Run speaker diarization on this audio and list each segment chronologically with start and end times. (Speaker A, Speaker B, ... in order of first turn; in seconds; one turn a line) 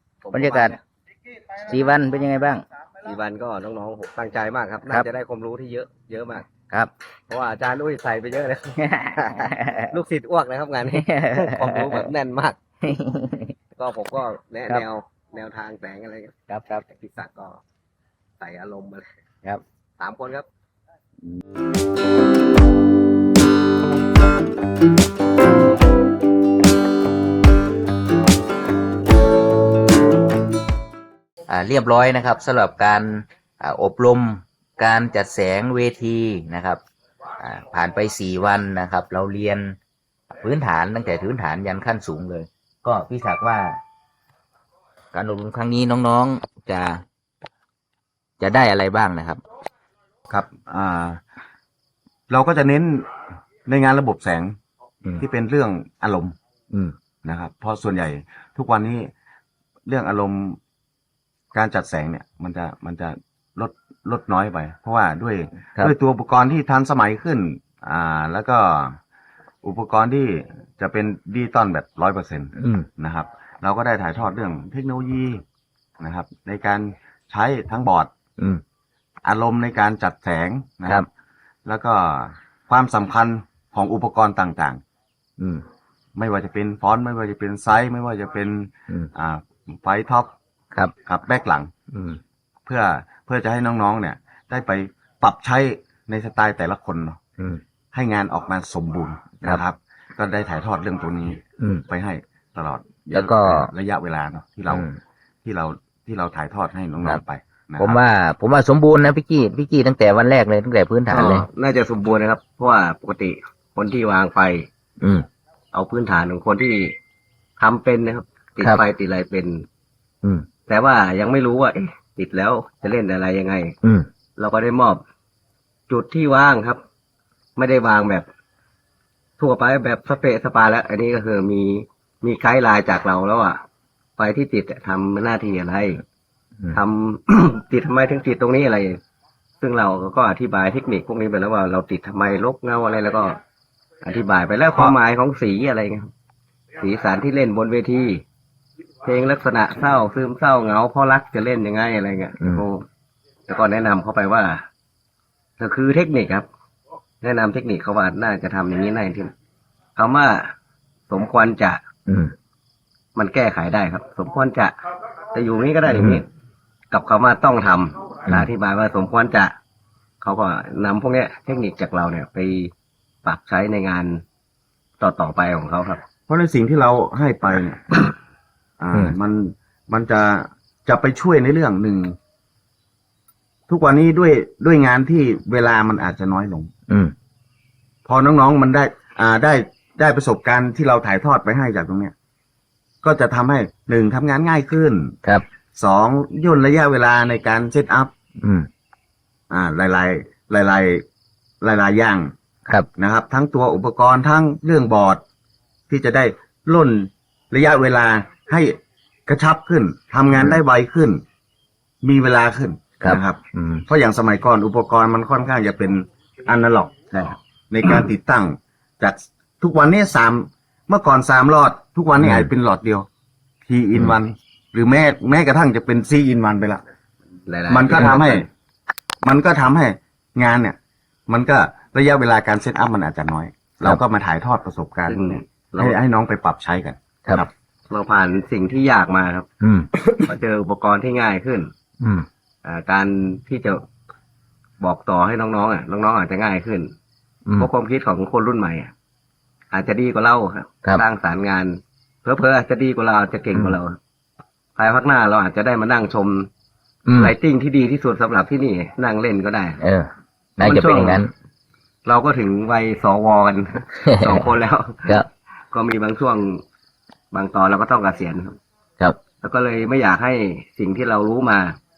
Speaker A: 0.2-0.8
Speaker B: 0.3-0.8
Speaker B: 1.5-2.6
Speaker A: 3.0-6.5
Speaker A: 7.3-12.6
Speaker B: 8.8-9.9
Speaker B: 10.9-12.1
Speaker B: 12.8-13.5
Speaker A: 13.7-16.3
Speaker B: 16.5-16.8
Speaker A: 16.9-17.6
Speaker A: 18.4-19.1
Speaker A: 20.0-20.4
Speaker B: 31.5-36.8
Speaker B: 37.4-39.8
Speaker B: 40.4-43.8
Speaker B: 45.1-47.0
Speaker B: 48.4-49.4
Speaker C: 50.3-51.2
Speaker C: 52.3-53.1
Speaker C: 53.6-54.5
Speaker C: 55.2-56.3
Speaker C: 57.2-59.1
Speaker C: 59.9-60.6
Speaker C: 61.5-69.0
Speaker C: 69.6-75.4
Speaker B: 72.6-72.9
Speaker C: 76.0-78.1
Speaker C: 79.2-81.0
Speaker C: 81.6-84.8
Speaker B: 85.4-85.6
Speaker C: 86.2-90.3
Speaker C: 91.0-91.7
Speaker B: 91.9-92.2
Speaker C: 92.7-97.2
Speaker C: 97.9-104.9
Speaker B: 101.6-101.8
Speaker B: 103.1-103.7
Speaker B: 104.7-105.0
Speaker C: 105.4-108.0
Speaker B: 107.8-111.5
Speaker A: 111.1-114.7
Speaker B: 115.0-115.2
Speaker A: 115.7-116.9
Speaker A: 117.6-119.7
Speaker A: 120.7-123.7
Speaker A: 124.4-125.0
Speaker A: 125.9-126.8
Speaker A: 127.6-128.3
Speaker A: 129.4-133.6
Speaker A: 134.2-136.0
Speaker A: 136.7-139.0
Speaker A: 139.6-143.4
Speaker A: 144.0-146.1
Speaker A: 146.8-148.2
Speaker A: 149.0-152.8
Speaker B: 152.4-152.6
Speaker A: 153.5-154.6
Speaker A: 155.6-156.4
Speaker A: 157.2-159.3
Speaker A: 160.0-160.5
Speaker A: 161.1-161.8
Speaker B: 162.1-162.3
Speaker A: 163.2-164.7
Speaker A: 165.3-166.3
Speaker B: 165.9-166.2
Speaker A: 166.9-169.5
Speaker A: 170.2-172.7
Speaker A: 173.2-174.2
Speaker A: 175.0-176.0
Speaker C: 176.3-178.0
Speaker C: 178.8-182.2
Speaker C: 183.7-186.7
Speaker C: 188.0-192.1
Speaker C: 193.0-195.2
Speaker C: 195.7-198.1
Speaker B: 198.4-198.7
Speaker C: 199.5-201.0
Speaker C: 201.6-202.3
Speaker C: 202.9-205.2
Speaker C: 205.9-211.2
Speaker B: 210.3-210.6
Speaker C: 212.0-223.1
Speaker B: 213.0-213.8
Speaker B: 222.2-222.5
Speaker C: 223.6-226.8
Speaker A: 227.5-228.5
Speaker C: 227.7-228.5
Speaker C: 229.2-230.8
Speaker C: 231.3-237.5
Speaker A: 235.1-236.0
Speaker A: 237.9-239.5
Speaker B: 239.6-239.9
Speaker A: 240.2-241.7
Speaker B: 242.0-242.2
Speaker A: 242.6-243.8
Speaker A: 244.8-246.9
Speaker A: 247.6-248.9
Speaker A: 249.7-254.0
Speaker A: 254.8-256.5
Speaker B: 257.1-257.3
Speaker A: 257.2-259.8
Speaker B: 259.8-261.3
Speaker A: 260.6-261.2
Speaker A: 262.0-265.1
Speaker B: 264.0-264.4
Speaker A: 265.7-266.6
Speaker A: 267.3-268.6
Speaker A: 269.4-271.8